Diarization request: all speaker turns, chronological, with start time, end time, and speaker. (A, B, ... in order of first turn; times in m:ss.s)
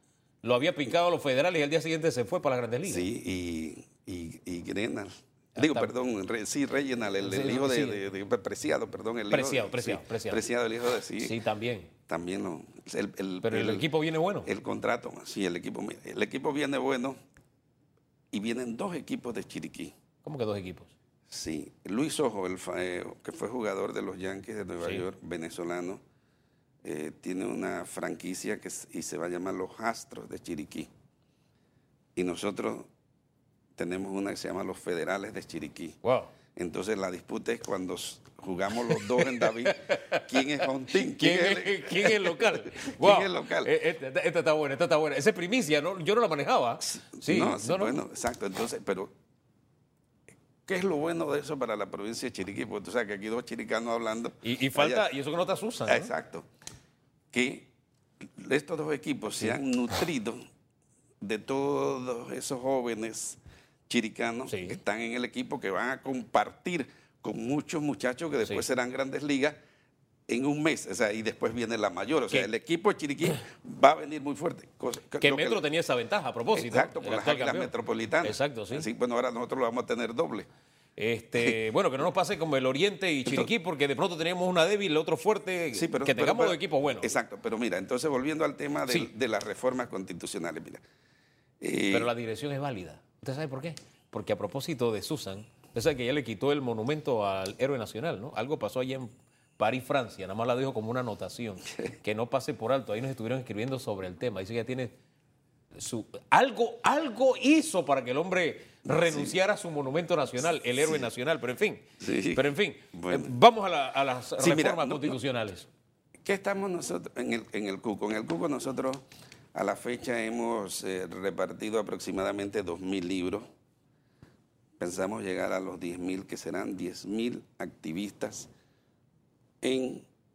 0:00.4-0:03.1 A
0:02.8-0:11.4 B
0:05.6-0:05.9 A
0:07.2-0:08.0 A
0:09.3-0:10.4 A
0:11.2-0:11.9 A
0:12.1-0:13.9 B
0:13.4-0:14.5 A
0:14.4-0:17.2 B
0:18.3-0:19.9 B
0:20.2-0:20.9 A
0:21.3-0:26.0 B
0:26.8-0:30.9 B
0:32.2-0:32.9 B
0:33.8-0:36.0 B
0:36.0-0:36.3 A
0:36.5-0:43.7 B
0:38.7-0:48.0 A
0:46.8-0:49.1 B
0:50.6-0:55.0 B
0:54.4-0:56.1 A
0:55.9-0:56.5 B
0:57.3-0:57.7 B
0:58.2-1:00.4 B
1:01.2-1:09.6 B
1:04.5-1:04.8 A
1:10.3-1:15.6 B
1:15.2-1:18.9 A
1:16.5-1:20.5 B
1:21.0-1:27.1 A
1:25.7-1:30.8 B
1:31.6-1:32.1 B
1:31.9-1:44.9 A
1:45.7-1:55.7 A
1:48.9-1:49.4 B
1:52.0-1:53.3 B
1:54.4-1:55.2 B
1:56.2-2:03.4 B
2:04.8-2:08.5 B
2:09.6-2:10.0 B